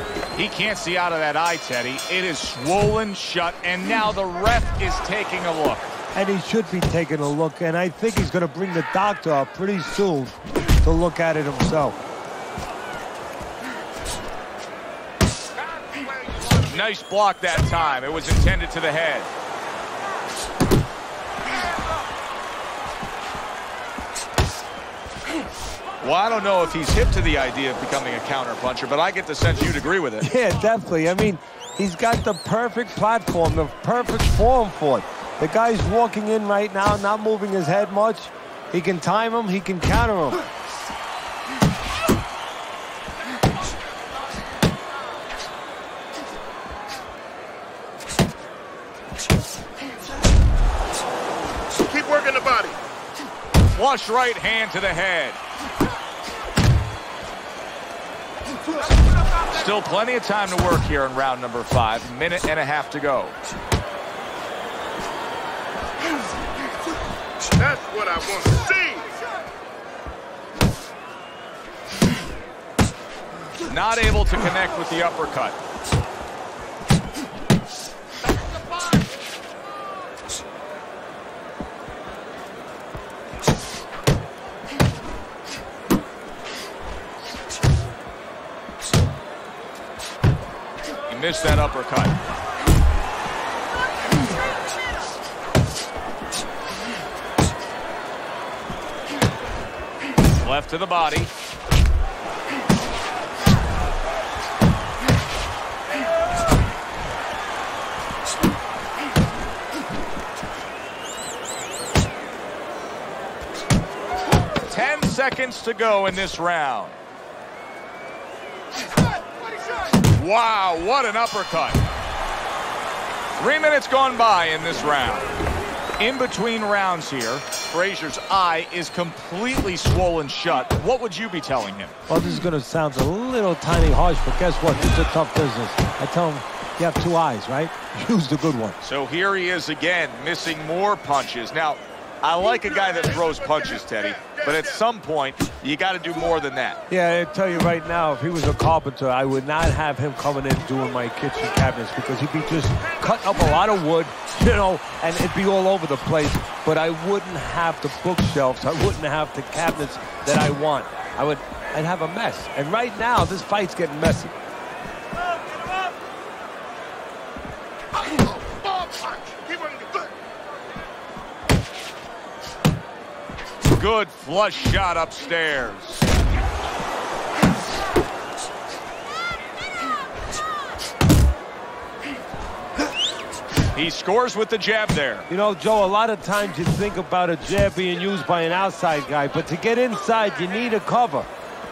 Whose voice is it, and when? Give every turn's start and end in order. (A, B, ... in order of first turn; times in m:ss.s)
0:00.3-0:05.9 A
0:06.1-0:12.0 B
0:15.9-0:16.4 C
0:16.5-0:19.3 A
0:26.0-0:30.3 A
0:30.2-0:40.4 B
0:51.9-0:52.8 C
0:53.7-0:55.4 A
0:59.4-1:03.4 A
1:07.6-1:09.1 C
1:13.6-1:15.6 A
1:31.1-1:32.2 A
1:40.4-1:41.3 A
1:54.7-1:57.0 A
2:00.0-2:01.8 A
2:03.4-2:05.3 A
2:06.0-2:11.9 A
2:12.1-2:18.8 B
2:18.8-2:26.8 A
2:26.9-2:44.3 B
2:48.5-2:50.0 C
2:53.7-2:56.0 A
3:03.7-3:05.3 A
3:05.3-3:11.3 B